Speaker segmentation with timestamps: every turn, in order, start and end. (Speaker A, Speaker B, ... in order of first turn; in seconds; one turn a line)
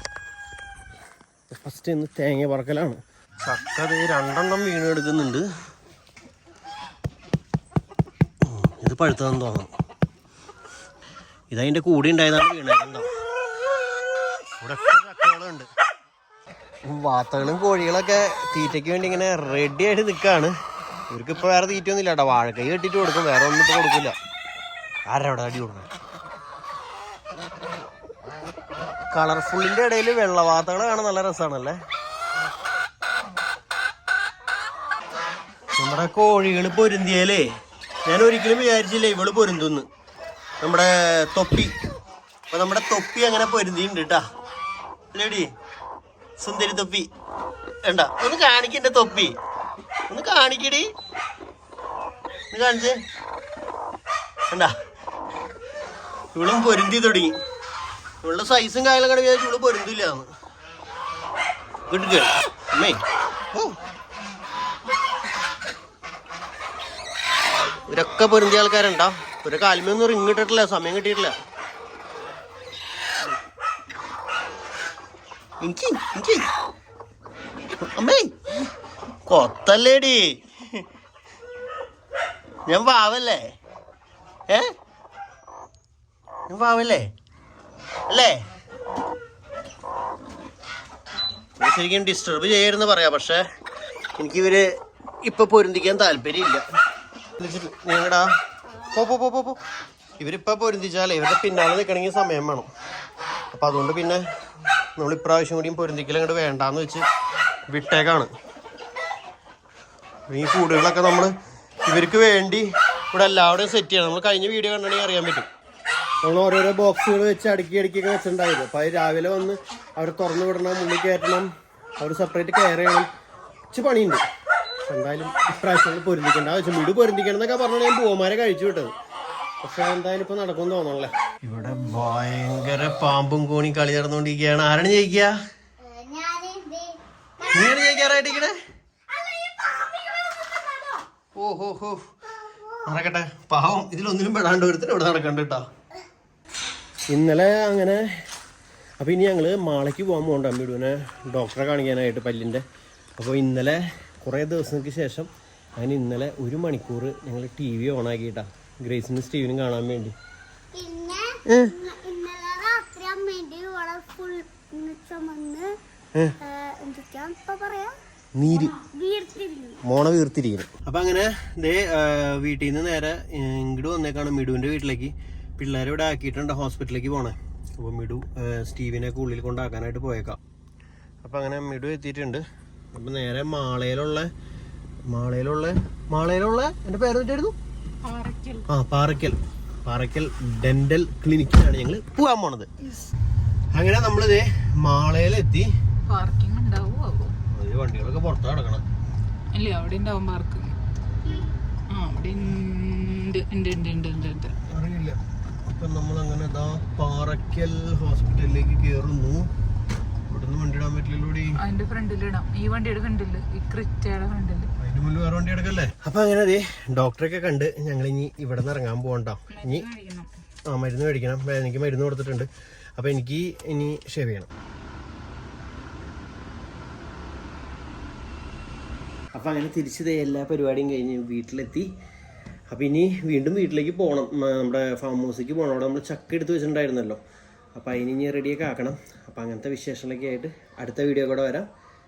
Speaker A: 1.5-5.5
Speaker A: 8.4-9.7
Speaker A: 11.5-13.1
Speaker A: 14.6-15.7
Speaker A: 16.8-20.5
Speaker A: 21.1-24.1
Speaker A: 25.1-25.9
Speaker A: 29.1-31.8
Speaker A: 35.8-37.5
Speaker A: 38.1-39.9
Speaker A: 40.6-41.7
Speaker A: 42.5-44.2
Speaker A: 45.1-45.5
Speaker A: 46.4-47.1
Speaker A: 47.8-49.3
Speaker A: 50.1-50.9
Speaker A: 52.5-53.0
Speaker A: 56.3-57.4
Speaker A: 58.2-60.3
Speaker A: 61.9-63.0
Speaker A: 67.9-71.3
Speaker A: 75.6-76.5
Speaker A: 77.8-78.3
Speaker A: 79.2-80.8
Speaker A: 82.7-83.4
Speaker A: 86.5-87.1
Speaker A: 88.1-88.4
Speaker A: 91.6-93.4
Speaker A: 94.2-94.7
Speaker A: 95.2-96.6
Speaker A: 97.4-98.3
Speaker A: 98.9-99.6
Speaker A: 100.2-102.7
Speaker A: 103.5-104.2
Speaker A: 105.0-107.1
Speaker A: 107.7-108.3
Speaker A: 110.3-111.3
Speaker A: 111.8-115.5
Speaker A: 116.2-123.1
Speaker A: 123.7-124.2
Speaker A: 124.8-128.9
Speaker A: 129.6-135.3
Speaker B: 135.9-137.0
Speaker A: 137.5-138.5
Speaker A: 141.3-142.0
Speaker A: 142.8-145.7
Speaker A: 147.1-148.1
Speaker A: 149.0-152.6
Speaker A: 153.2-160.1
Speaker B: 160.7-165.7
Speaker A: 161.5-161.7
Speaker B: 166.4-167.9
Speaker A: 168.3-168.8
Speaker B: 168.6-169.8
Speaker A: 169.8-180.4
Speaker A: 181.2-184.3
Speaker A: 185.1-187.6
Speaker C: 188.0-188.7
Speaker A: 188.7-192.7
Speaker A: 193.7-195.7
Speaker C: 196.1-197.3
Speaker A: 197.5-198.8
Speaker C: 199.5-200.8
Speaker C: 201.9-204.6
Speaker A: 204.7-209.5
Speaker A: 210.3-211.6
Speaker C: 211.6-214.7
Speaker A: 214.8-219.8
Speaker C: 219.5-220.3
Speaker A: 220.7-224.5
Speaker A: 229.3-231.9
Speaker A: 232.7-237.2
Speaker A: 237.7-241.7